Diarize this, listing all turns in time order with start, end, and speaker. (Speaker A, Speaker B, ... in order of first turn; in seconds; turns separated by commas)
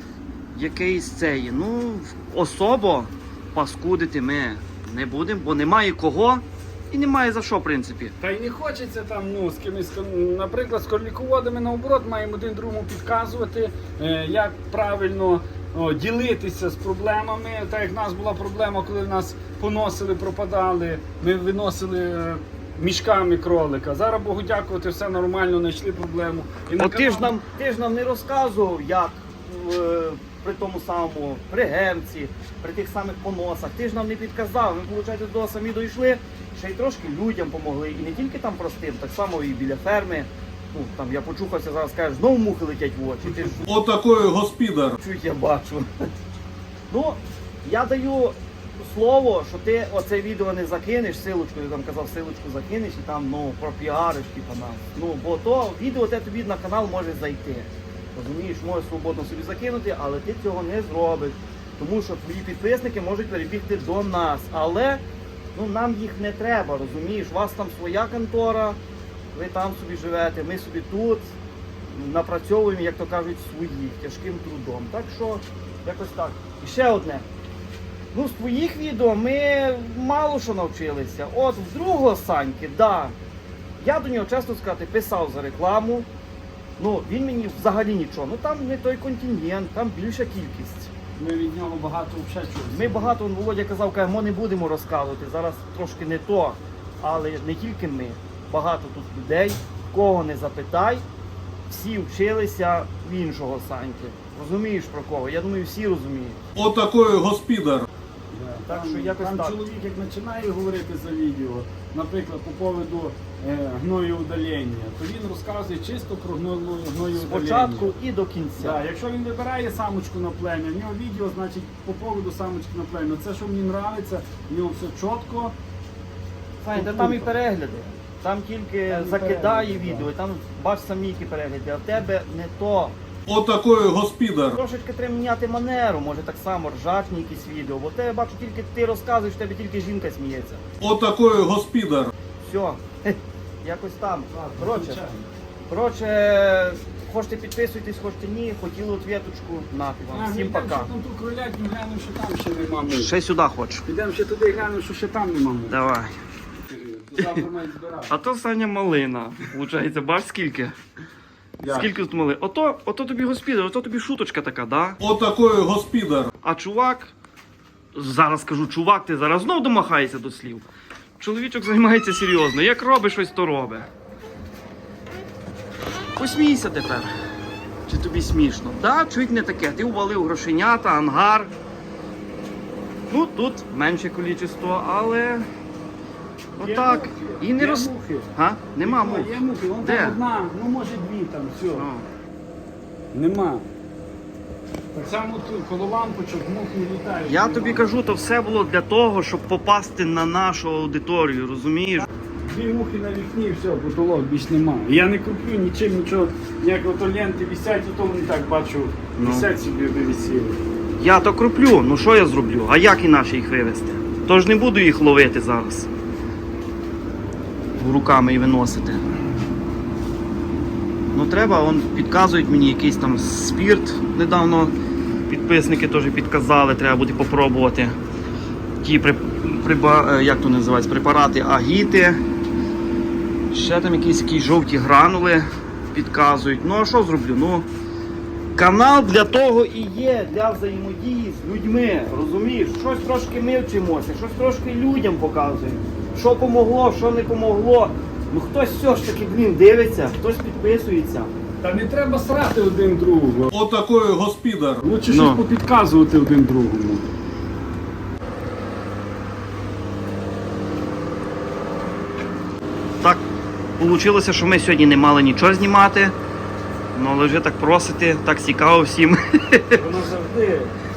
Speaker A: 0.5-8.1, Speaker B: 8.2-27.3, Speaker A: 26.8-43.7, Speaker C: 43.6-45.0, Speaker A: 45.0-45.9, Speaker A: 46.9-65.0, Speaker A: 65.5-68.8, Speaker A: 69.3-71.3, Speaker A: 71.9-77.3, Speaker A: 78.1-83.2, Speaker A: 83.8-86.1, Speaker A: 86.8-90.9, Speaker B: 91.2-93.2, Speaker A: 92.7-101.0, Speaker A: 101.7-106.4, Speaker C: 106.5-107.9, Speaker B: 108.3-118.0, Speaker A: 108.7-109.6, Speaker A: 117.2-118.8, Speaker B: 118.6-125.6, Speaker A: 126.6-133.0, Speaker B: 126.7-127.4, Speaker B: 128.9-130.1, Speaker C: 133.3-134.6, Speaker A: 134.5-140.6, Speaker C: 140.8-142.1, Speaker A: 142.4-145.0, Speaker B: 144.3-145.3, Speaker A: 145.7-150.9, Speaker B: 150.1-153.1, Speaker A: 152.9-153.8, Speaker B: 153.8-155.8, Speaker A: 155.7-156.2, Speaker B: 156.7-158.1, Speaker A: 158.1-160.8, Speaker B: 161.6-162.0, Speaker A: 161.7-165.0, Speaker C: 165.0-166.3, Speaker A: 166.4-167.1, Speaker A: 167.9-170.7, Speaker A: 171.2-173.9, Speaker A: 176.2-177.1, Speaker A: 177.9-181.5, Speaker A: 183.1-185.5, Speaker A: 186.6-190.2, Speaker B: 186.6-188.3, Speaker B: 188.8-191.9, Speaker A: 191.7-192.1, Speaker B: 193.1-193.7, Speaker B: 194.9-197.8, Speaker A: 197.3-202.1, Speaker B: 202.4-210.6, Speaker A: 209.2-209.5, Speaker A: 211.0-215.9, Speaker A: 217.8-219.1, Speaker A: 221.1-224.7, Speaker A: 225.3-228.0, Speaker A: 228.8-232.2, Speaker A: 233.5-237.7, Speaker A: 238.6-251.3, Speaker B: 251.6-253.5, Speaker C: 253.5-254.9, Speaker B: 254.8-257.1, Speaker A: 255.1-255.4, Speaker A: 263.8-266.1, Speaker A: 266.9-269.8, Speaker B: 269.7-270.7